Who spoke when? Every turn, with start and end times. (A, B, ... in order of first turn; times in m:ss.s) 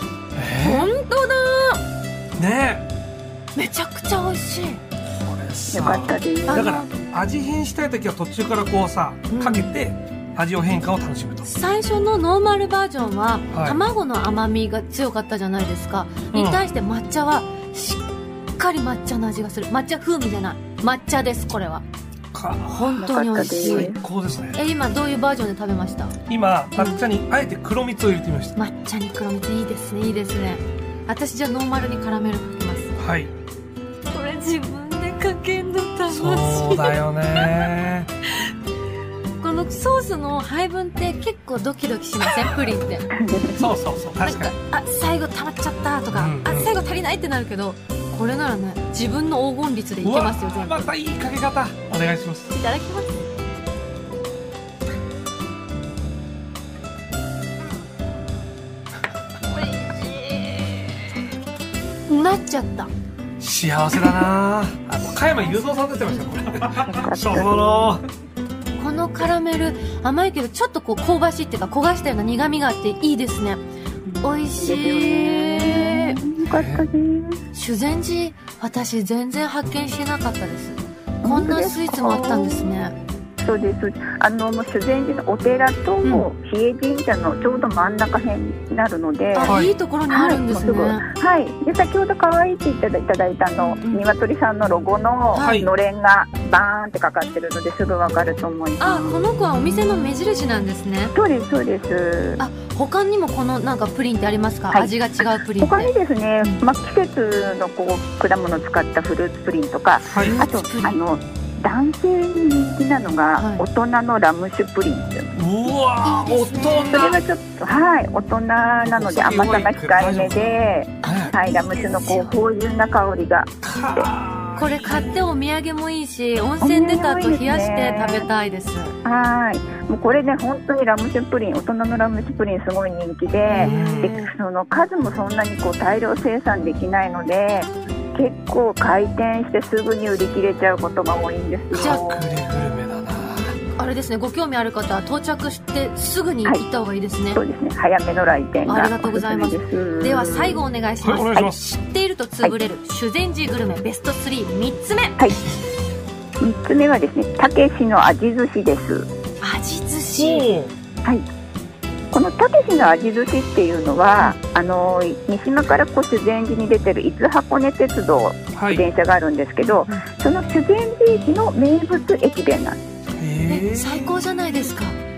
0:00.3-0:00.9 A
0:00.6-0:01.8 B
0:02.4-0:02.8 A
0:03.5-0:04.8 B
0:05.2-0:11.5 A
0:05.7-0:06.7 C
0:06.5-0:06.9 B
0:09.3-0:09.7 B
0:11.4-0:18.0 B
0:13.5-0:13.8 A
0:16.3-0:16.6 A
0:18.6-0:21.8 B
0:22.3-0:24.6 A
0:22.6-0:23.9 B
0:23.0-0:24.0 C
0:24.5-0:26.2 B
0:26.3-0:28.6 A
0:26.8-0:27.0 B
0:28.6-0:32.9 B
0:33.0-0:33.3 A
0:34.1-0:37.7 B
0:36.1-0:38.1 A
0:38.2-0:38.5 B
0:39.4-0:43.1 B
0:43.1-0:43.6 C
0:43.5-0:44.5 A
0:44.2-0:50.9 B
0:46.1-0:46.7 A
0:50.0-0:52.5 A
0:52.5-0:53.3 B
0:59.5-1:01.2 B
1:02.1-1:02.9 B
1:03.4-1:08.0 A
1:05.3-1:06.2 B
1:06.8-1:07.9 C
1:08.8-1:13.6 B
1:14.1-1:17.4 C
1:14.2-1:16.2 B
1:16.5-1:16.8 A
1:17.5-1:23.0 B
1:21.2-1:22.8 C
1:23.4-1:39.3 C
1:29.3-1:31.1 B
1:29.4-1:29.7 A
1:33.6-1:34.0 B
1:35.3-1:35.6 B
1:35.4-1:35.7 A
1:38.8-1:41.1 B
1:41.1-1:42.4 C
1:42.4-1:45.9 B
1:45.6-1:55.3 C
1:50.1-1:50.4 A
1:50.1-1:51.0 B
1:53.4-1:53.6 B
1:55.4-1:57.2 A
1:56.0-1:57.2 B
1:56.9-2:04.1 C
1:58.8-2:01.3 A
2:01.0-2:02.4 B
2:03.6-2:05.2 A
2:04.6-2:09.0 B
2:06.6-2:08.3 C
2:09.0-2:22.2 C
2:13.4-2:14.3 B
2:13.5-2:14.1 A
2:21.7-2:23.6 A
2:21.8-2:22.0 B
2:23.8-2:27.4 B
2:27.3-2:30.6 C
2:28.6-2:35.2 B
2:31.0-2:31.8 A
2:36.4-2:39.1 C
2:39.4-2:40.5 B
2:40.1-2:40.7 A
2:42.1-2:52.8 C
2:48.5-2:48.8 A
2:49.6-2:50.0 B
2:53.2-2:54.1 A
2:53.5-2:55.0 B